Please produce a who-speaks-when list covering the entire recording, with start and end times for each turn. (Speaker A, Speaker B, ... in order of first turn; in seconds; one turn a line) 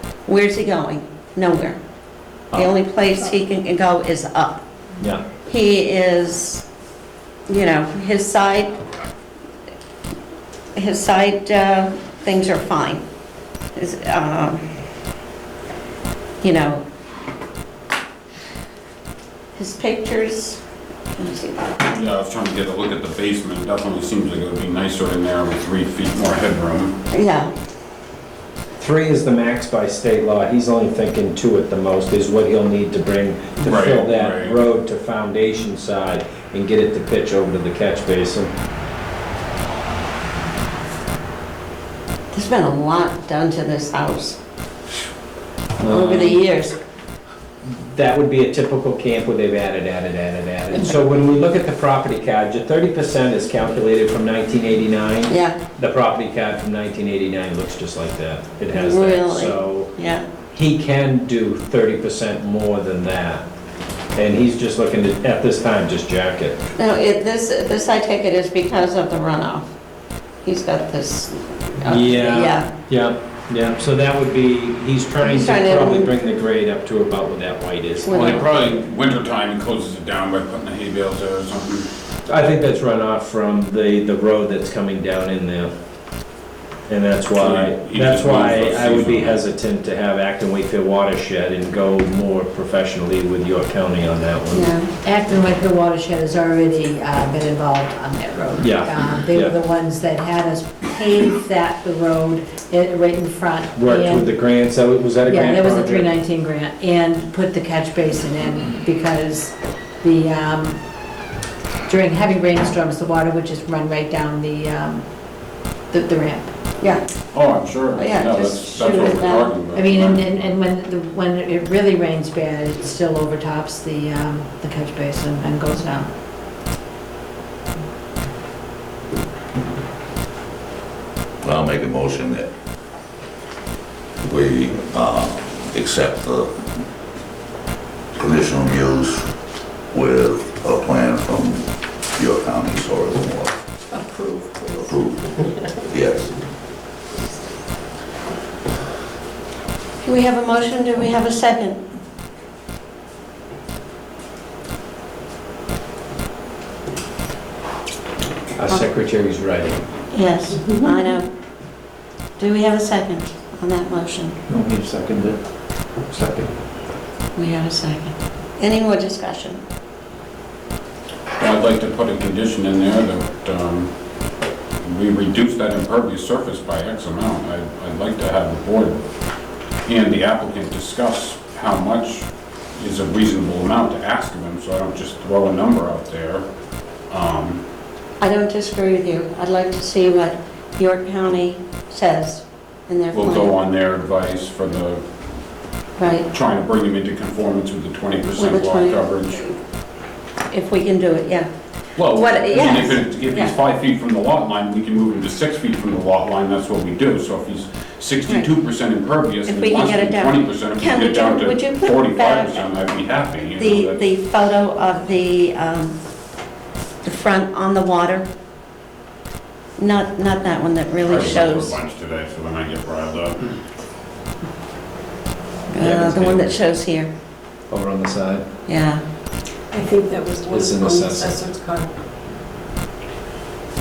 Speaker A: 0.2-1.8
Speaker A: 2.5-4.6
Speaker A: 5.5-6.6
Speaker A: 7.5-8.7
Speaker A: 10.7-13.0
Speaker A: 13.8-14.7
Speaker A: 16.4-16.8
Speaker A: 19.5-20.6
Speaker A: 21.2-21.8
Speaker B: 21.8-26.9
Speaker A: 27.1-27.5
Speaker C: 28.8-38.5
Speaker B: 33.6-34.6
Speaker A: 42.3-44.4
Speaker C: 45.8-46.4
Speaker A: 45.8-46.7
Speaker C: 47.6-59.9
Speaker A: 55.3-55.6
Speaker A: 58.7-60.2
Speaker C: 60.5-63.4
Speaker C: 64.2-66.6
Speaker A: 66.8-69.7
Speaker A: 70.4-72.7
Speaker C: 71.8-78.4
Speaker A: 75.2-76.1
Speaker A: 78.0-78.4
Speaker B: 78.1-81.9
Speaker C: 82.2-85.7
Speaker C: 86.9-94.7
Speaker B: 87.3-89.4
Speaker A: 94.5-94.9
Speaker D: 95.0-104.3
Speaker C: 98.6-99.5
Speaker C: 103.8-106.1
Speaker D: 105.2-110.8
Speaker D: 111.8-116.5
Speaker B: 117.3-120.5
Speaker A: 118.0-119.5
Speaker D: 119.7-126.1
Speaker E: 131.4-132.5
Speaker E: 134.2-136.7
Speaker E: 138.1-139.3
Speaker E: 139.9-143.5
Speaker F: 144.0-144.7
Speaker E: 144.8-146.3
Speaker A: 150.0-151.8
Speaker C: 158.6-159.8
Speaker A: 160.1-161.3
Speaker A: 162.4-164.4
Speaker C: 164.5-165.4
Speaker C: 166.1-166.5
Speaker A: 167.3-169.6
Speaker B: 171.4-173.9
Speaker B: 174.8-179.0
Speaker B: 179.8-186.4
Speaker B: 187.1-187.6
Speaker A: 188.2-193.5
Speaker B: 193.1-195.1
Speaker A: 196.0-196.3
Speaker B: 196.3-199.4
Speaker A: 198.4-199.6
Speaker A: 200.5-201.5
Speaker B: 202.0-214.0
Speaker A: 202.1-203.5
Speaker A: 209.4-212.7
Speaker A: 213.5-215.9
Speaker A: 217.0-218.3
Speaker A: 219.8-221.8
Speaker B: 221.0-223.5
Speaker A: 225.7-227.1
Speaker C: 225.8-226.5
Speaker C: 227.7-228.4
Speaker A: 228.7-229.0
Speaker F: 229.7-231.8
Speaker C: 230.5-231.4